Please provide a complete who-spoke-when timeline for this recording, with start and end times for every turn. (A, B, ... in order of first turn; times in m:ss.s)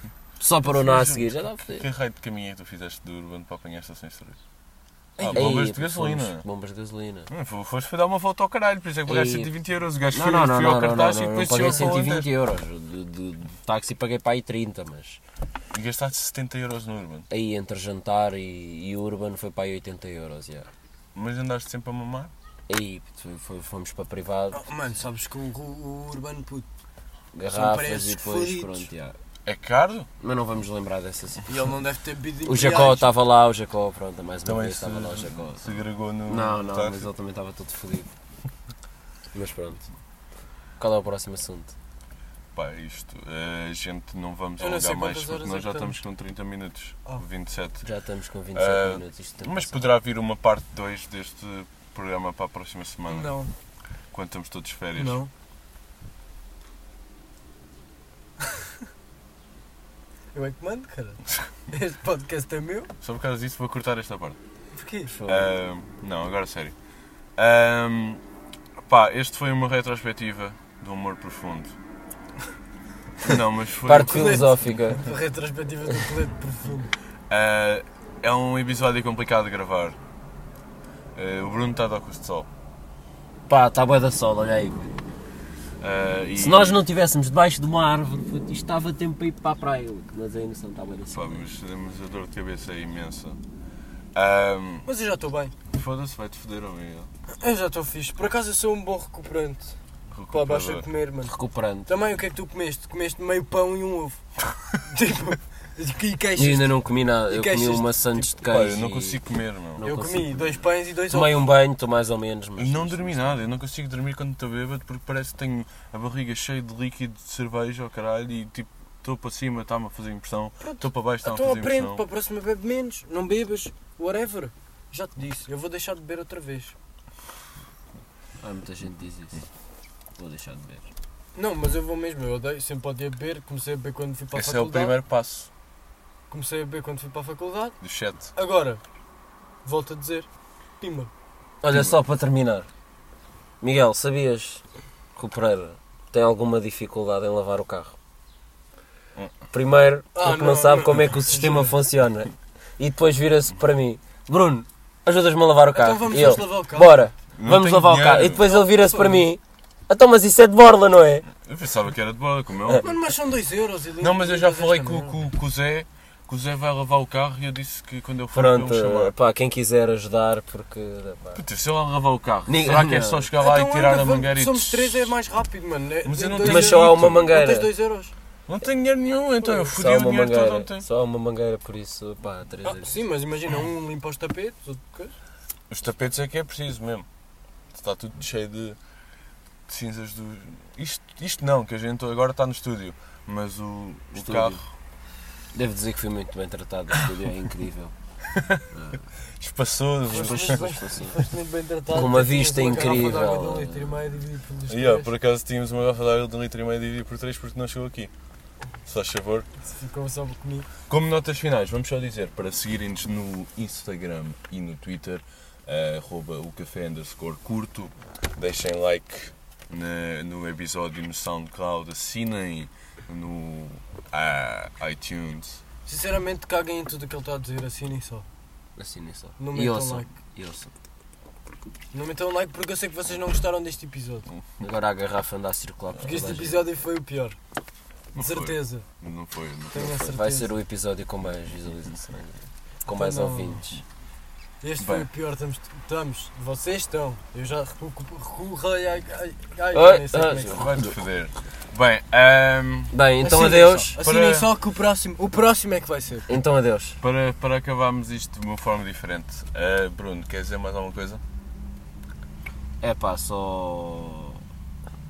0:00.4-0:01.9 A
0:00.6-0:04.4 B
0:05.2-0:07.3 A
0:05.2-0:06.4 B
0:07.3-0:12.3 B
0:09.1-0:09.5 A
0:10.1-0:15.2 A
0:15.7-0:17.3 B
0:17.3-0:20.7 A
0:21.2-0:22.3 B
0:22.7-0:24.6 A
0:24.5-0:26.7 C
0:27.3-0:29.2 A
0:27.5-0:28.9 C
0:29.4-0:30.1 B
0:30.2-0:31.5 A
0:31.5-0:33.1 C
0:32.4-0:38.1 A
0:34.5-0:37.1 B
0:39.3-0:39.9 A
0:40.8-0:41.8 A
0:42.6-0:47.9 B
0:44.6-0:46.0 C
0:47.8-0:49.8 A
0:48.5-0:53.4 B
0:53.1-0:53.5 C
0:54.1-0:55.2 B
0:55.0-0:55.3 C
1:00.3-1:02.9 C
1:03.0-1:04.4 B
1:04.7-1:05.1 C
1:05.1-1:05.5 A
1:05.3-1:06.8 B
1:07.4-1:08.2 B
1:08.9-1:11.8 B
1:13.2-1:14.5 B
1:13.8-1:15.1 A
1:13.9-1:16.9 C
1:17.3-1:20.0 B
1:21.2-1:22.5 B
1:23.5-1:24.9 A
1:25.8-1:26.8 B
1:26.4-1:31.4 A
1:31.1-1:33.4 B
1:34.2-1:34.9 B
1:34.9-1:35.5 C
1:35.7-1:37.1 B
1:37.4-1:39.8 C
1:40.1-1:40.9 B
1:40.3-1:41.3 C
1:41.3-1:41.9 A
1:41.9-1:44.2 C
1:44.8-1:48.3 C
1:46.4-1:49.2 A
1:48.4-1:49.8 B
1:49.8-1:53.4 A
1:49.8-1:51.5 C
1:52.6-2:02.0 B
2:00.6-2:06.8 C
2:08.4-2:09.5 A
2:10.2-2:10.9 A
2:11.4-2:15.0 C
2:14.3-2:15.5 B
2:16.3-2:17.8 C
2:17.8-2:18.3 B
2:18.4-2:18.8 C
2:19.6-2:20.3 C
2:20.8-2:21.1 C
2:21.6-2:22.7 A
2:21.7-2:22.0 B
2:23.6-2:24.6 A
2:25.2-2:28.0 A
2:29.5-2:41.3 A
2:30.2-2:31.7 C
2:35.7-2:37.1 C
2:37.4-2:38.5 B
2:38.5-2:39.3 C
2:41.4-2:43.0 B
2:42.8-2:45.2 C
2:44.0-2:49.2 B
2:48.3-2:51.4 A
2:51.4-2:55.1 B
2:52.5-2:53.3 A
2:53.4-2:58.1 C
2:56.0-2:57.3 B
2:56.4-2:57.7 A
2:58.5-3:00.9 B
2:59.4-2:59.7 C
2:59.7-3:03.0 A
3:02.6-3:05.1 C
3:05.7-3:07.1 B
3:07.7-3:08.8 B
3:09.7-3:14.6 B
3:14.2-3:14.6 A
3:15.5-3:17.9 A
3:18.3-3:18.6 B
3:18.7-3:19.0 A
3:19.4-3:20.7 B
3:20.1-3:21.2 A
3:20.1-3:25.1 C
3:21.9-3:24.0 A
3:24.7-3:28.1 B
3:28.8-3:29.5 B
3:29.6-3:30.7 C
3:30.9-3:45.6 B
3:45.9-3:48.3 C
3:48.8-3:50.7 A
3:49.4-3:50.1 C
3:51.9-3:54.3 C
3:54.6-3:56.7 A
3:56.0-3:57.4 C
3:58.1-3:59.9 B
3:58.2-3:58.9 C
3:59.7-4:00.5 C
3:59.8-4:03.8 A
4:02.9-4:03.6 C
4:04.6-4:10.6 C
4:04.8-4:05.1 B
4:09.7-4:11.0 A
4:10.5-4:12.9 B
4:12.9-4:13.9 A
4:13.2-4:16.3 C
4:14.0-4:14.5 B
4:16.3-4:17.0 A
4:17.0-4:21.2 B
4:22.8-4:24.4 A